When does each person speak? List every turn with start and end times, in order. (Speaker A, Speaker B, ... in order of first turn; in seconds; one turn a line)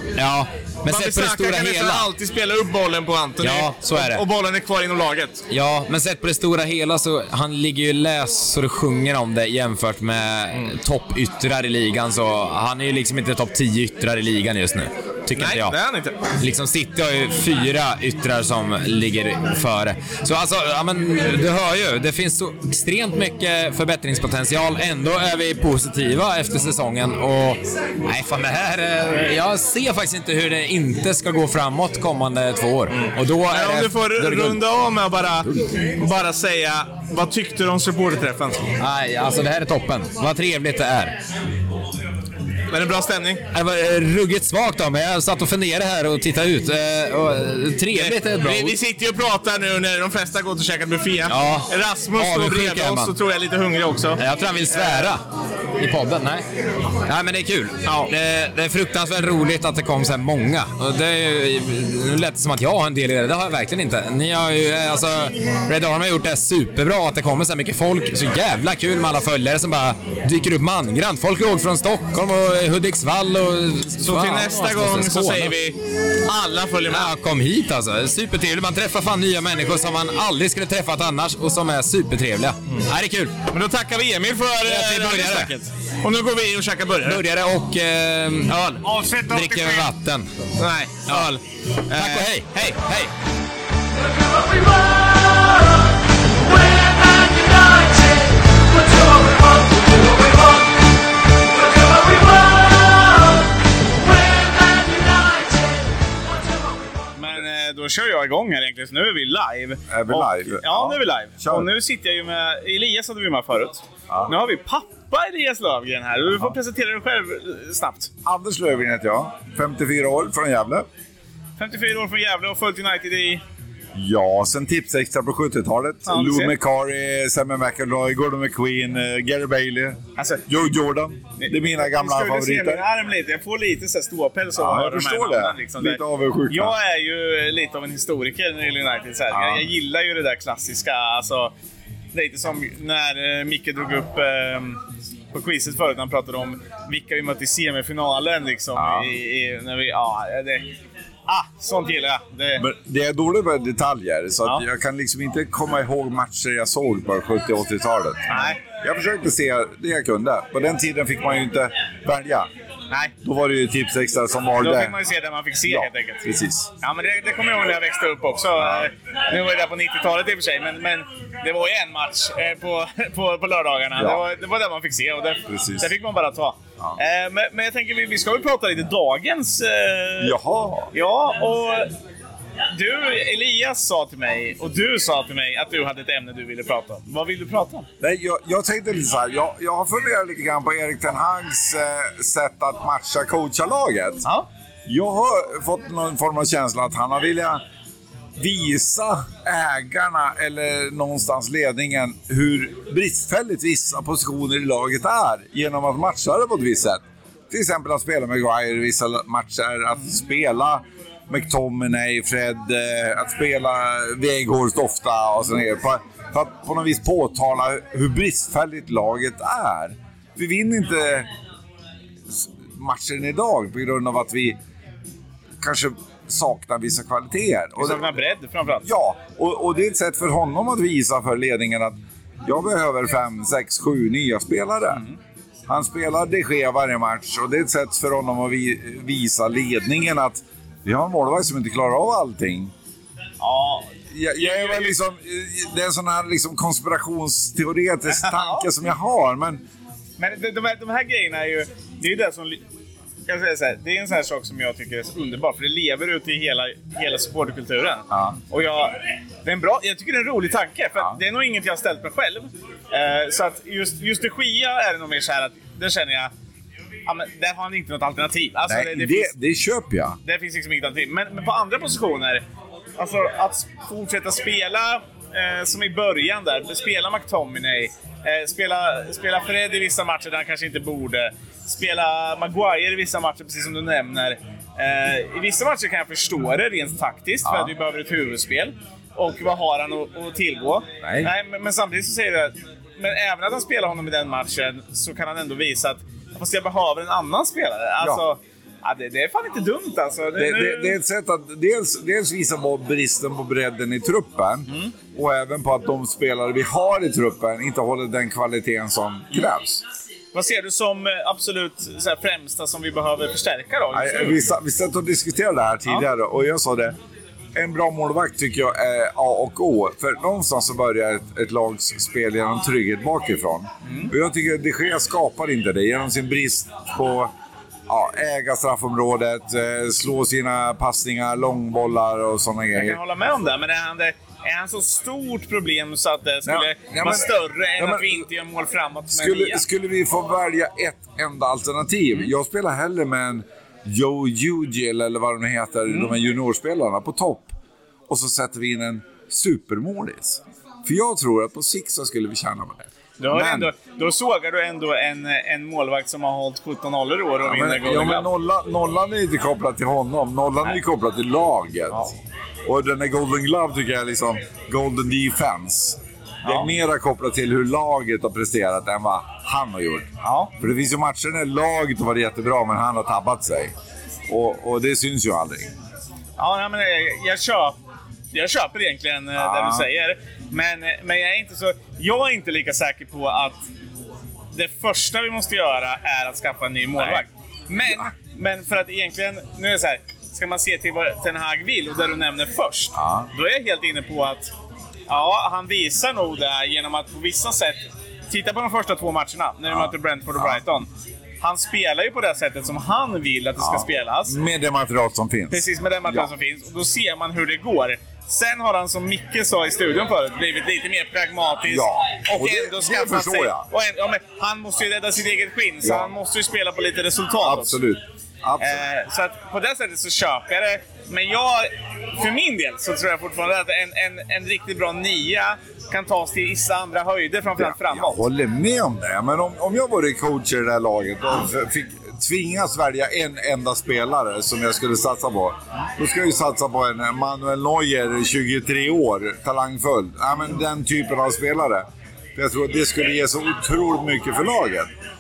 Speaker A: 0.2-2.1
Speaker B: 0.9-5.4
Speaker A: 3.4-4.2
Speaker A: 5.5-15.7
Speaker B: 15.3-16.1
Speaker A: 16.4-34.6
Speaker B: 32.9-38.7
Speaker A: 38.8-41.1
Speaker B: 42.7-43.4
Speaker A: 43.5-48.8
Speaker B: 47.9-55.1
Speaker A: 51.3-53.1
Speaker A: 54.2-55.2
Speaker A: 55.8-56.4
Speaker A: 57.0-75.5
Speaker B: 57.9-58.1
Speaker B: 74.0-75.8
Speaker B: 76.3-77.1
Speaker A: 76.9-83.3
Speaker B: 83.5-87.2
Speaker A: 84.6-85.5
Speaker A: 87.0-90.3
Speaker B: 88.5-89.5
Speaker B: 90.6-93.0
Speaker A: 91.9-93.1
Speaker B: 107.2-118.1
Speaker C: 109.9-111.7
Speaker C: 114.1-114.3
Speaker C: 118.2-120.9
Speaker B: 121.6-123.4
Speaker C: 123.9-132.8
Speaker B: 126.1-126.5
Speaker B: 130.2-130.4
Speaker B: 131.4-141.5
Speaker C: 134.6-136.7
Speaker C: 139.3-139.7
Speaker B: 142.1-144.8
Speaker B: 145.3-150.7
Speaker C: 148.7-149.1
Speaker B: 151.3-152.6
Speaker C: 152.6-162.5
Speaker B: 158.3-158.6
Speaker C: 163.2-165.0
Speaker B: 164.6-166.2
Speaker C: 165.7-166.7
Speaker B: 166.8-180.3
Speaker C: 168.6-168.9
Speaker C: 174.0-174.2
Speaker C: 175.5-175.9
Speaker C: 180.2-180.9
Speaker B: 180.9-181.9
Speaker B: 182.7-187.9
Speaker C: 188.0-194.2
Speaker C: 194.9-197.6
Speaker C: 198.4-221.3
Speaker C: 222.3-224.6
Speaker C: 225.6-228.0
Speaker B: 227.8-228.8
Speaker C: 228.8-235.1
Speaker C: 235.7-242.7
Speaker B: 243.4-245.0
Speaker C: 244.1-249.6
Speaker B: 248.1-248.6
Speaker B: 250.2-252.6
Speaker B: 253.3-258.9
Speaker C: 258.1-258.4
Speaker B: 259.4-266.3
Speaker B: 267.1-269.3
Speaker C: 268.7-270.2
Speaker B: 270.2-272.4
Speaker B: 273.0-301.0
Speaker C: 287.4-287.7
Speaker C: 291.0-291.3
Speaker C: 300.4-309.8
Speaker B: 310.3-314.5
Speaker C: 313.9-317.0
Speaker C: 317.5-327.3
Speaker B: 323.8-324.1
Speaker C: 327.9-333.0
Speaker B: 332.7-339.6
Speaker C: 336.4-338.2
Speaker C: 339.1-347.5
Speaker B: 345.9-346.1
Speaker C: 348.1-353.7
Speaker B: 353.2-358.3
Speaker C: 357.4-362.1
Speaker C: 362.6-373.7
Speaker B: 366.4-366.7
Speaker B: 370.2-370.5
Speaker C: 374.3-375.7
Speaker B: 376.4-377.8
Speaker B: 378.3-383.6
Speaker C: 379.4-379.9
Speaker B: 384.5-394.5
Speaker C: 387.0-388.1
Speaker C: 392.9-393.3
Speaker B: 395.1-400.9
Speaker C: 399.7-400.6
Speaker B: 401.4-404.4
Speaker C: 403.6-406.3
Speaker B: 405.5-417.8
Speaker C: 411.6-413.7
Speaker C: 415.8-416.1
Speaker C: 417.4-418.8
Speaker B: 418.6-421.7
Speaker B: 422.2-428.2
Speaker C: 427.5-444.9